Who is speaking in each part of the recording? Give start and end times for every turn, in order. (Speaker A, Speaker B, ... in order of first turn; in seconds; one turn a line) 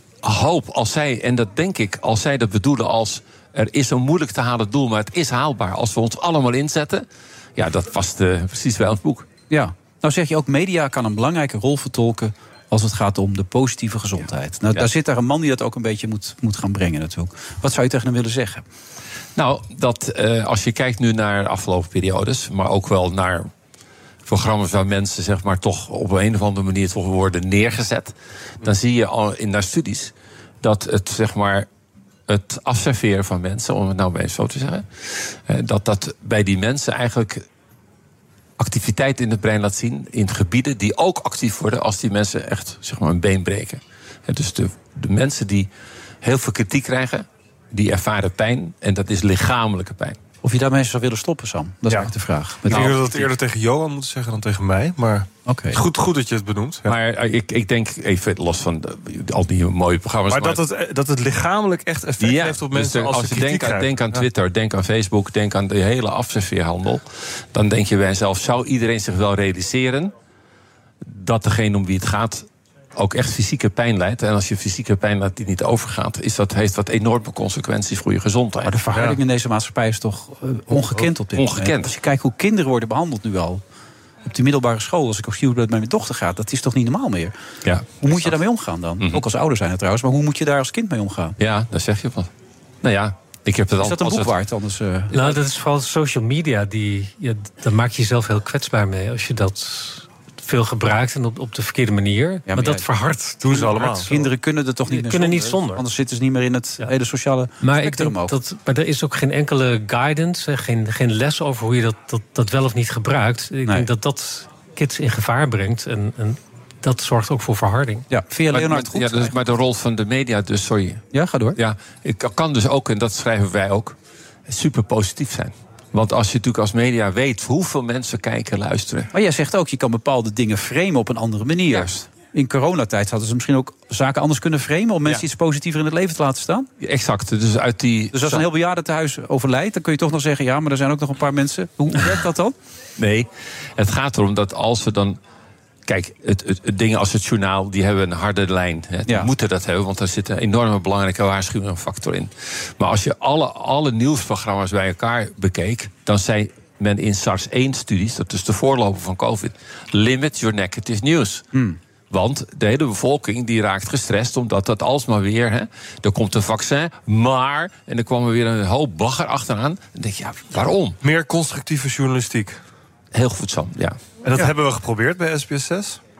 Speaker A: 0.2-9.2
Speaker B: 9.5-18.6
Speaker A: 19.4-23.5
Speaker A: 24.2-31.7
Speaker A: 32.3-37.4
Speaker A: 38.6-45.7
Speaker A: 46.2-50.2
Speaker B: 50.4-53.3
Speaker C: 52.6-56.9
Speaker A: 52.7-53.0
Speaker B: 55.5-55.8
Speaker A: 56.9-60.6
Speaker C: 60.3-64.2
Speaker A: 62.2-70.1
Speaker A: 71.0-78.7
Speaker B: 78.6-83.6
Speaker C: 78.9-79.2
Speaker A: 81.3-81.9
Speaker B: 84.2-87.3
Speaker A: 87.6-88.4
Speaker B: 88.0-91.3
Speaker A: 91.4-92.3
Speaker A: 92.8-94.3
Speaker B: 93.8-95.4
Speaker D: 95.1-104.1
Speaker B: 102.5-102.8
Speaker C: 103.4-104.1
Speaker B: 104.0-108.3
Speaker D: 104.9-105.8
Speaker D: 107.6-118.1
Speaker B: 118.1-119.3
Speaker A: 118.5-121.0
Speaker B: 121.1-121.6
Speaker A: 121.5-124.0
Speaker A: 124.5-129.1
Speaker B: 129.1-136.7
Speaker A: 131.7-132.0
Speaker A: 136.8-138.4
Speaker B: 138.1-142.5
Speaker A: 143.0-145.2
Speaker A: 145.9-161.4
Speaker B: 149.1-149.3
Speaker A: 162.1-171.0
Speaker C: 171.0-172.6
Speaker A: 173.1-174.4
Speaker C: 174.2-176.0